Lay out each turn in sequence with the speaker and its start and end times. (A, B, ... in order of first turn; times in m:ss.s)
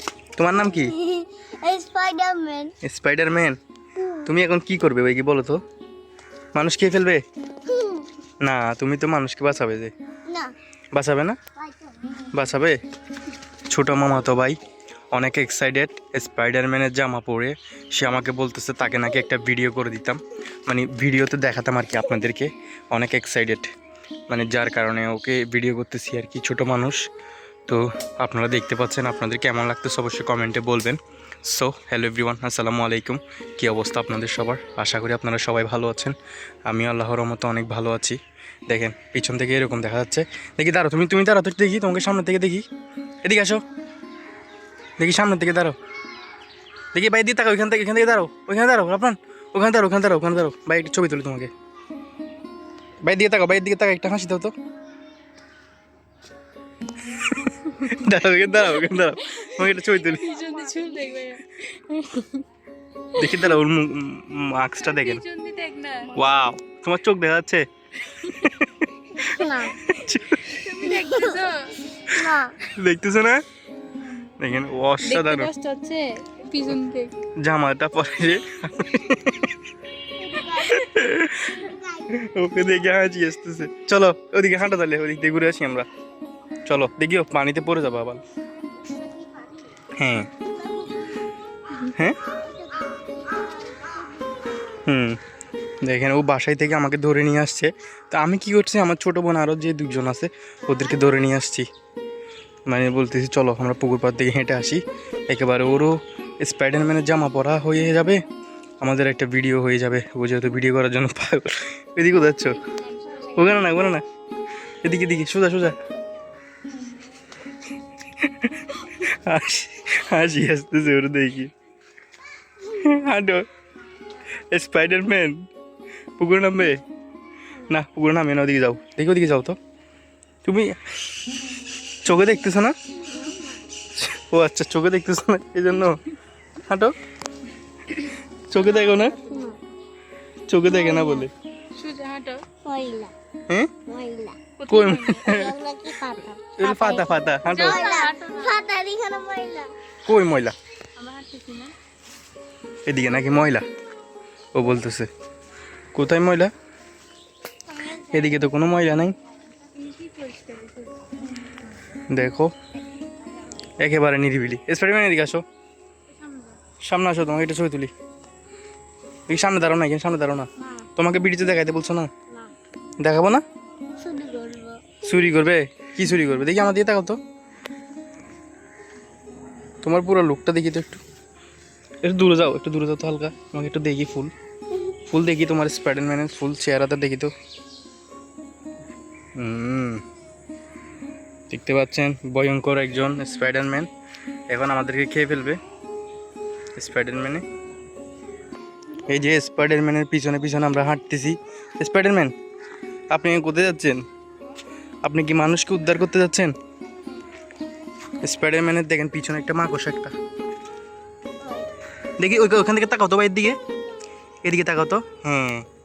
0:00.4-0:00.9 A
0:00.5-0:02.8 B
0:02.8-0:03.6 A
0:04.0-0:04.4 B
0:04.3-0:05.6 A
0:06.6-0:07.2 A
0:07.7-0:08.1 B
0:08.4-0:09.9 A
0:10.9-0:11.4 A
0:11.6-0:12.3 B
0:12.3-0:12.8 A
0:13.7-0:14.6 A
0:15.1-0:23.7 A
0:24.3-0:27.0 A
0:27.7-0:36.2 A
0:36.7-0:38.2 A
0:38.7-0:42.6 A
0:43.2-0:43.6 A
0:45.0-0:45.8 A
0:46.9-0:51.5 A
0:53.0-0:54.5 A
0:57.8-1:00.3 A
0:59.4-1:02.4 C
1:03.2-1:03.6 C
1:03.2-1:05.2 A
1:04.8-1:06.1 C
1:06.2-1:07.7 A
1:08.1-1:08.5 C
1:08.4-1:08.7 A
1:09.2-1:09.8 B
1:09.8-1:10.6 A
1:10.5-1:11.8 C
1:10.9-1:11.4 B
1:12.1-1:12.6 B
1:12.7-1:13.4 A
1:14.4-1:15.5 A
1:15.0-1:17.1 C
1:17.4-1:19.5 A
1:20.2-1:20.9 B
1:20.7-1:21.6 A
1:21.6-1:22.1 B
1:22.1-1:25.9 A
1:26.7-1:28.2 A
1:28.9-1:29.7 B
1:30.0-1:30.3 A
1:30.5-1:31.2 B
1:32.3-1:34.8 B
1:34.8-1:35.2 A
1:35.8-1:41.7 A
1:42.7-1:48.2 A
1:48.8-1:52.6 A
1:52.7-1:53.6 C
1:53.3-1:54.0 A
1:54.8-1:55.8 A
1:58.2-2:01.5 A
2:02.7-2:03.5 A
2:04.5-2:05.5 A
2:06.2-2:06.8 A
2:07.7-2:09.6 A
2:10.4-2:10.8 A
2:12.0-2:12.8 A
2:13.1-2:13.3 B
2:14.0-2:16.0 A
2:16.7-2:16.9 A
2:18.5-2:19.2 A
2:18.6-2:19.5 C
2:19.2-2:19.6 B
2:20.5-2:21.3 A
2:20.6-2:21.3 B
2:21.8-2:22.4 C
2:22.6-2:23.1 B
2:23.9-2:24.4 B
2:24.6-2:25.3 C
2:24.7-2:25.6 A
2:25.3-2:29.7 B
2:26.6-2:27.9 A
2:27.4-2:28.7 C
2:30.0-2:30.5 A
2:31.0-2:31.7 C
2:32.9-2:33.6 A
2:34.5-2:35.1 A
2:35.9-2:36.5 A
2:37.7-2:38.4 C
2:38.1-2:39.2 A
2:39.7-2:41.0 C
2:42.1-2:42.5 A
2:43.8-2:45.4 A
2:46.1-2:46.6 C
2:46.8-2:47.9 A
2:49.3-2:52.1 A
2:50.6-2:50.9 B
2:53.0-2:53.4 A
2:54.0-2:55.2 B
2:55.0-2:57.2 A
2:59.8-3:01.0 A
3:02.0-3:04.3 A
3:05.1-3:07.3 A
3:09.4-3:10.0 A
3:11.5-3:13.9 A
3:14.5-3:15.6 A
3:16.8-3:17.4 A
3:19.1-3:22.3 A
3:23.1-3:24.0 A
3:25.0-3:26.5 A
3:28.2-3:30.1 A
3:31.4-3:31.7 B
3:32.2-3:33.6 A
3:34.4-3:35.6 A